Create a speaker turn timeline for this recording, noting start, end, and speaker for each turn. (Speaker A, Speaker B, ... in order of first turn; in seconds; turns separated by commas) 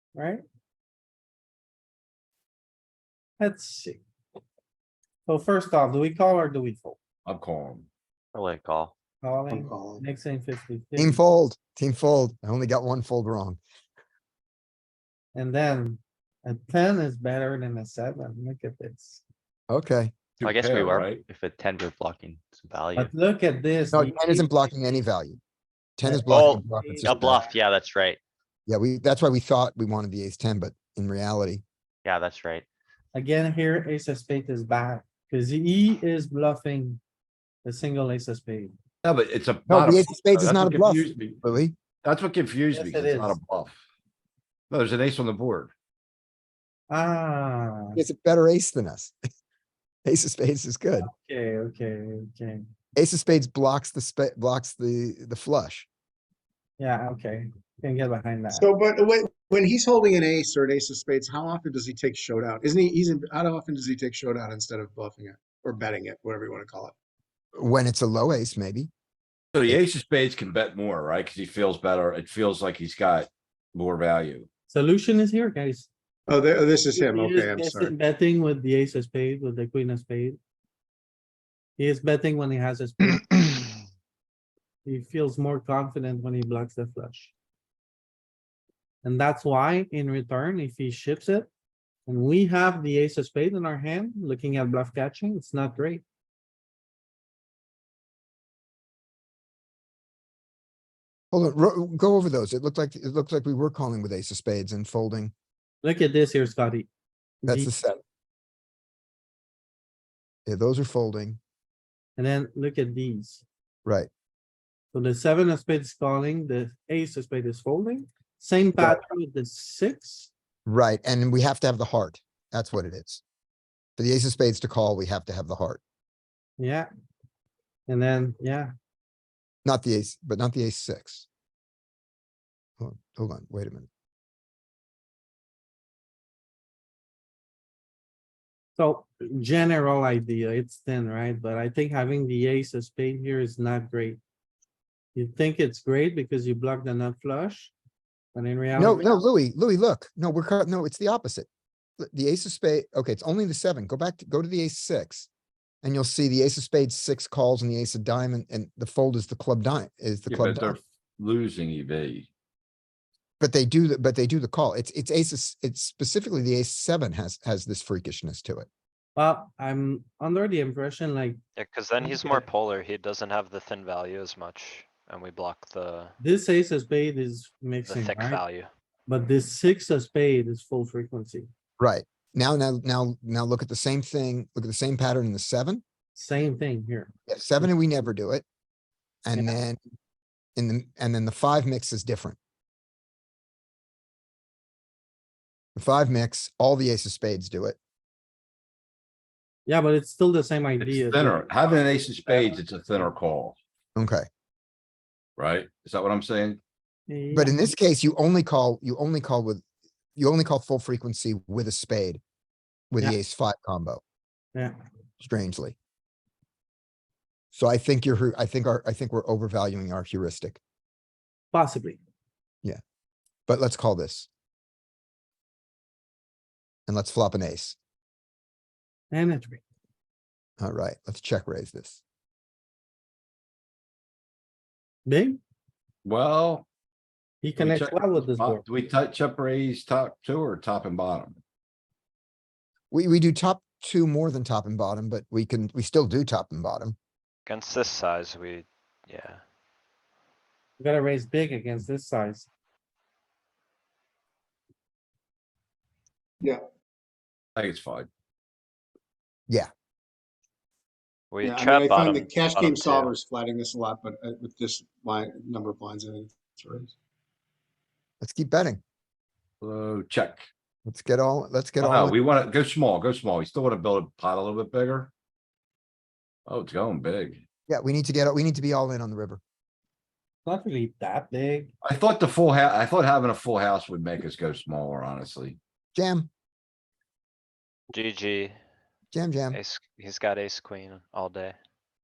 Speaker A: 0.1-0.4, Speaker A: 3.4-4.0, Speaker A: 5.2-7.0, Speaker B: 7.2-7.9, Speaker C: 8.3-8.9, Speaker A: 9.2-11.2, Speaker D: 9.5-10.1, Speaker E: 11.0-13.6, Speaker A: 15.3-19.2, Speaker E: 19.7-20.1, Speaker B: 20.4-21.2, Speaker C: 20.4-23.1, Speaker A: 22.9-24.7, Speaker E: 23.9-25.4, Speaker E: 26.0-27.4, Speaker A: 26.1-27.5, Speaker C: 26.2-28.2, Speaker E: 28.7-31.6, Speaker C: 32.0-32.6, Speaker A: 33.1-37.0, Speaker A: 37.6-38.7, Speaker B: 39.0-41.4, Speaker E: 39.7-41.8, Speaker B: 42.0-43.8, Speaker A: 42.7-43.4, Speaker B: 44.7-45.7, Speaker A: 46.9-48.0, Speaker E: 48.0-49.1, Speaker E: 50.0-51.1, Speaker A: 51.0-52.6, Speaker E: 53.0-55.9, Speaker A: 56.8-58.7, Speaker D: 58.5-66.9, Speaker E: 67.6-68.9, Speaker B: 69.5-74.5, Speaker A: 74.7-75.9, Speaker D: 76.3-77.9, Speaker A: 76.9-80.4, Speaker A: 81.8-83.3, Speaker A: 84.8-87.3, Speaker A: 89.0-91.5, Speaker A: 92.1-96.0, Speaker E: 101.3-105.3, Speaker A: 105.8-106.9, Speaker A: 107.4-107.7, Speaker E: 107.5-108.0, Speaker E: 110.5-111.4, Speaker A: 112.2-113.4, Speaker A: 114.9-120.3, Speaker E: 120.7-123.2, Speaker E: 124.0-125.8, Speaker A: 126.6-126.9, Speaker A: 127.9-128.7, Speaker E: 129.6-131.2, Speaker E: 132.8-133.9, Speaker A: 138.8-144.2, Speaker A: 145.1-147.7, Speaker A: 148.3-149.1, Speaker E: 148.7-151.5, Speaker E: 152.0-155.3, Speaker E: 155.8-160.8, Speaker B: 160.3-162.3, Speaker E: 163.4-168.7, Speaker A: 169.2-171.4, Speaker F: 171.6-176.1, Speaker A: 172.0-172.4, Speaker A: 176.2-178.4, Speaker F: 177.8-178.7, Speaker A: 179.1-181.5, Speaker E: 181.8-185.8, Speaker A: 186.1-187.7, Speaker E: 187.3-188.4, Speaker E: 189.2-189.8, Speaker E: 190.6-192.4, Speaker E: 195.8-197.8, Speaker A: 199.7-201.4, Speaker B: 200.8-203.6, Speaker E: 203.9-204.3, Speaker B: 205.4-206.6, Speaker A: 207.1-207.7, Speaker E: 207.3-209.6, Speaker E: 210.2-212.2, Speaker E: 212.9-214.0, Speaker E: 215.2-215.8, Speaker E: 217.5-220.6, Speaker A: 221.5-222.0, Speaker E: 223.5-224.3, Speaker E: 226.9-227.8, Speaker A: 229.1-229.6, Speaker E: 230.6-232.0, Speaker A: 235.1-235.4, Speaker B: 236.0-236.7, Speaker A: 237.4-238.6, Speaker B: 237.6-241.4, Speaker E: 242.9-246.9, Speaker F: 247.4-249.4, Speaker A: 250.8-252.5, Speaker B: 257.6-258.1, Speaker F: 261.3-263.1, Speaker D: 261.4-266.9, Speaker E: 268.2-268.8, Speaker B: 269.6-270.4, Speaker E: 270.8-272.1, Speaker B: 271.8-275.1, Speaker B: 276.4-277.4, Speaker E: 277.7-279.4, Speaker A: 280.4-281.7, Speaker B: 281.8-285.6, Speaker E: 285.9-286.3, Speaker F: 287.9-288.6, Speaker E: 289.1-289.6, Speaker F: 289.5-291.6